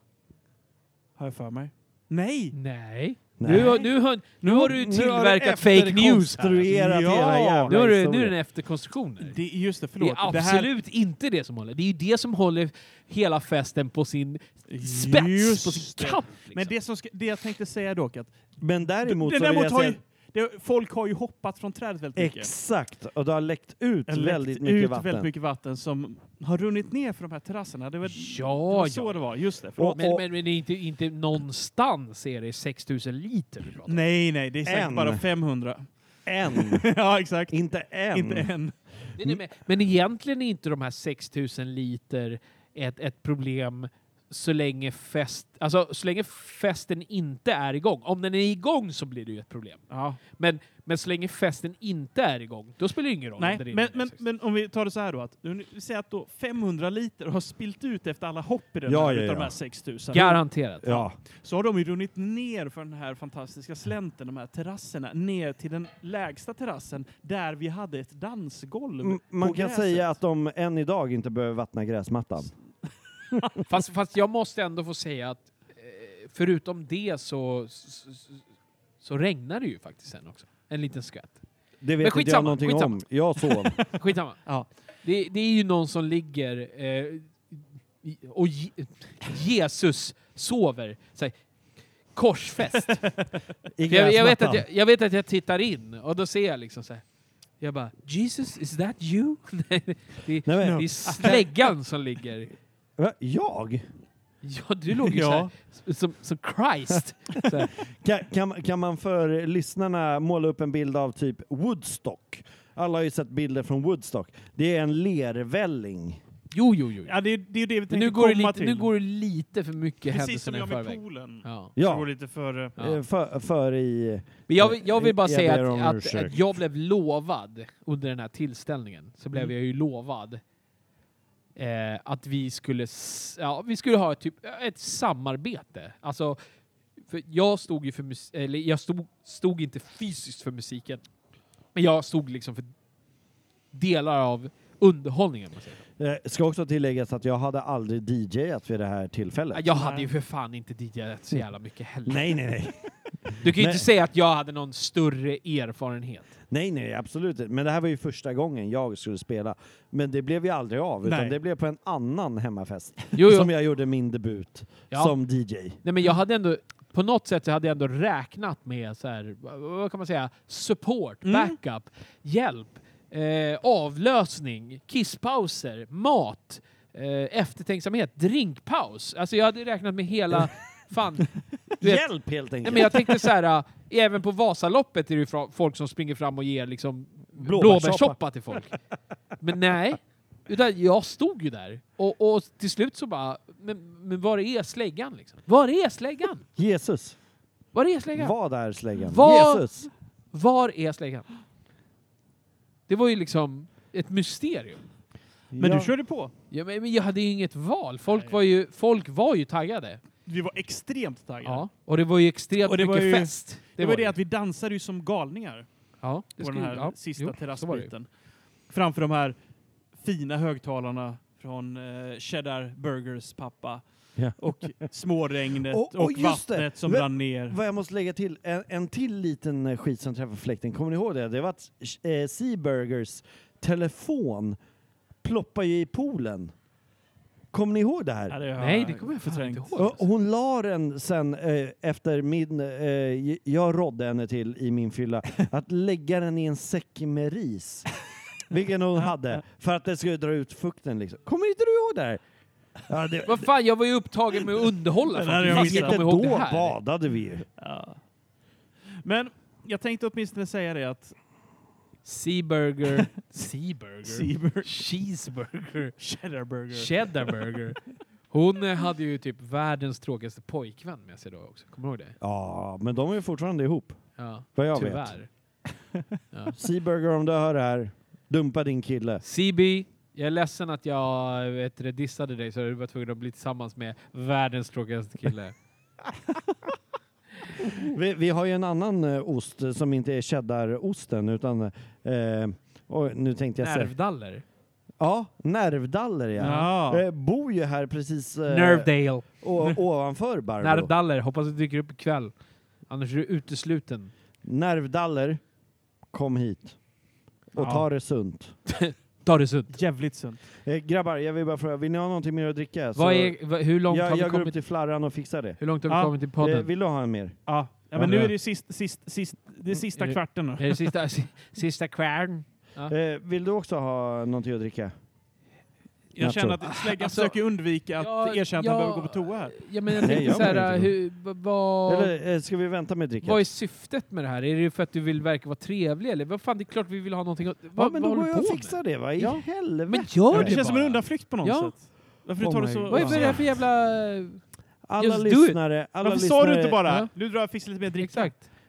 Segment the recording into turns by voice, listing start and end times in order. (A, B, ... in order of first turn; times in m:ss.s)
0:01.2-0:02.5 A
0:02.5-0:06.7 B
0:03.4-0:03.8 C
0:04.4-0:08.4 C
0:06.6-0:07.7 A
0:07.7-0:09.4 B
0:09.2-0:10.7 A
0:10.0-0:16.7 B
0:14.7-0:18.3 A
0:18.6-0:20.0 C
0:19.0-0:22.5 A
0:22.2-0:25.3 C
0:24.1-0:30.0 A
0:28.1-0:29.2 B
0:29.8-0:30.2 C
0:29.9-0:34.0 B
0:33.8-0:35.9 A
0:34.6-0:35.2 C
0:36.2-0:36.8 C
0:36.5-0:37.6 A
0:37.5-0:38.5 C
0:38.1-0:38.7 A
0:39.2-0:54.2 B
0:49.9-0:50.2 A
0:53.4-1:10.2 A
0:58.9-0:59.6 C
1:00.1-1:00.9 B
1:00.1-1:01.2 C
1:09.0-1:12.5 C
1:13.6-1:18.4 B
1:19.0-1:21.4 B
1:21.8-1:23.8 C
1:22.0-1:23.0 B
1:23.9-1:24.4 B
1:25.0-1:31.3 B
1:32.1-1:33.0 B
1:33.8-1:34.6 C
1:33.9-1:37.0 B
1:37.6-1:42.5 B
1:40.4-1:41.4 C
1:40.6-1:41.4 A
1:43.0-1:43.9 C
1:44.4-1:47.7 B
1:45.0-1:45.5 A
1:47.9-1:56.2 C
1:56.5-1:57.1 B
1:57.1-1:58.9 A
1:57.9-2:01.7 B
2:00.1-2:02.7 A
2:01.8-2:02.1 C
2:02.8-2:06.4 C
2:04.5-2:10.4 B
2:11.6-2:16.4 B
2:17.1-2:21.0 B
2:21.7-2:22.7 B
2:23.7-2:25.8 B
2:26.0-2:29.7 C
2:29.5-2:32.3 B
2:29.7-2:30.1 A
2:32.0-2:33.9 C
2:33.4-2:36.3 B
2:36.5-2:45.8 C
2:41.0-2:41.4 A
2:43.1-2:43.5 B
2:45.8-3:02.0 B
2:51.2-2:51.6 A
3:01.8-3:03.2 C
3:02.6-3:08.7 B
3:07.4-3:08.2 C
3:09.4-3:16.5 B
3:16.6-3:17.2 C
3:17.7-3:18.3 B
3:18.1-3:19.9 C
3:19.0-3:19.7 B
3:20.3-3:21.3 B
3:22.9-3:24.8 B
3:25.5-3:25.9 C
3:25.6-3:26.3 A
3:26.5-3:30.0 B
3:28.1-3:28.4 A
3:30.2-3:31.6 A
3:31.4-3:34.1 B
3:32.6-3:35.7 A
3:36.0-3:37.9 B
3:36.4-3:38.1 A
3:38.7-3:39.4 A
3:39.9-3:47.6 A
3:45.7-3:54.6 C
3:55.2-3:56.5 C
3:57.5-3:58.4 C
3:58.3-3:59.8 A
3:58.6-4:00.0 B
3:59.8-4:07.9 C
4:08.5-4:12.2 C
4:12.9-4:13.5 C
4:13.2-4:16.8 B
4:15.1-4:16.0 A
4:15.4-4:17.4 C
4:17.6-4:18.0 A
4:19.0-4:21.1 A
4:22.0-4:25.9 B
4:24.0-4:24.7 A
4:26.0-4:27.4 A
4:26.7-4:32.2 B
4:32.2-4:34.0 C
4:34.2-4:35.3 B
4:34.5-4:35.1 C
4:36.5-4:39.2 C
4:39.2-4:45.5 B
4:47.6-4:53.9 C
4:53.6-4:54.4 B
4:55.0-5:00.9 C
4:56.4-4:57.0 A
4:58.5-4:59.2 B
5:00.6-5:02.3 B
5:02.9-5:04.1 B
5:04.4-5:05.4 C
5:06.1-5:06.8 C
5:07.5-5:08.6 C
5:07.6-5:07.8 A
5:08.7-5:09.8 B
5:09.7-5:10.4 A
5:10.6-5:15.6 C
5:12.9-5:14.5 B
5:15.6-5:16.7 B
5:15.9-5:16.1 A
5:16.4-5:17.4 C
5:17.4-5:20.9 A
5:18.0-5:18.3 C
5:18.0-5:18.3 B
5:20.0-5:22.9 B
5:22.9-5:24.9 C
5:26.1-5:30.4 A
5:26.2-5:26.6 C
5:26.6-5:27.4 B
5:28.0-5:32.1 B
5:30.0-5:30.9 C
5:31.9-5:33.4 C
5:33.2-5:41.7 B
5:37.8-5:40.6 C
5:40.3-5:43.4 A
5:42.4-5:43.5 C
5:42.9-5:44.4 B
5:44.8-5:46.8 C
5:45.0-5:45.6 B
5:46.0-5:48.4 A
5:46.8-5:47.1 B
5:48.0-5:48.4 B